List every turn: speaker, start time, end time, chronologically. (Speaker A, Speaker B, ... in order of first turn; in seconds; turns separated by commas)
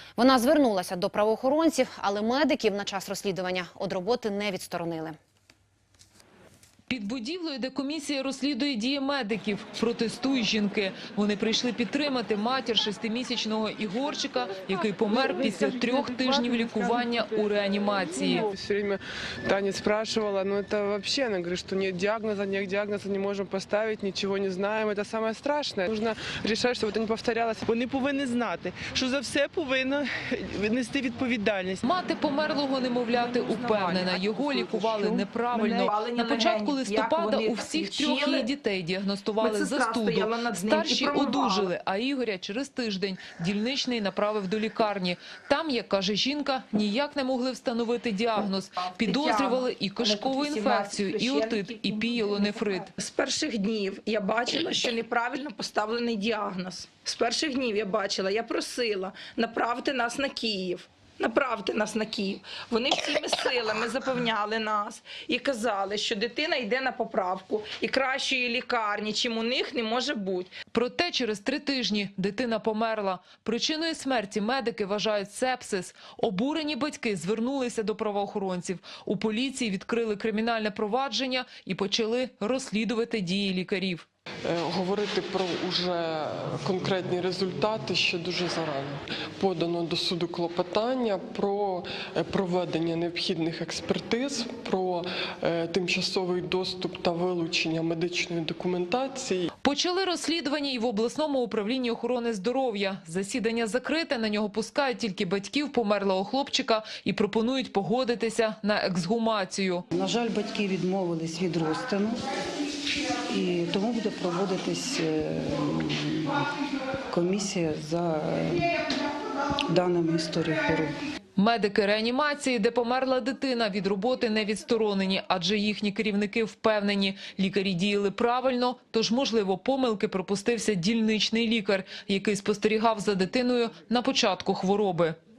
Speaker A: 0.2-5.2, Speaker B: 6.9-18.5, Speaker C: 18.2-27.6, Speaker D: 27.7-30.1, Speaker D: 30.6-31.8, Speaker B: 31.8-52.9, Speaker E: 33.1-38.5, Speaker E: 39.4-41.7, Speaker E: 48.8-70.5, Speaker B: 70.7-84.1, Speaker F: 84.5-99.5, Speaker B: 99.6-109.8, Speaker G: 109.9-112.2, Speaker G: 113.3-116.5, Speaker G: 117.1-118.8, Speaker G: 119.6-121.0, Speaker B: 121.3-135.2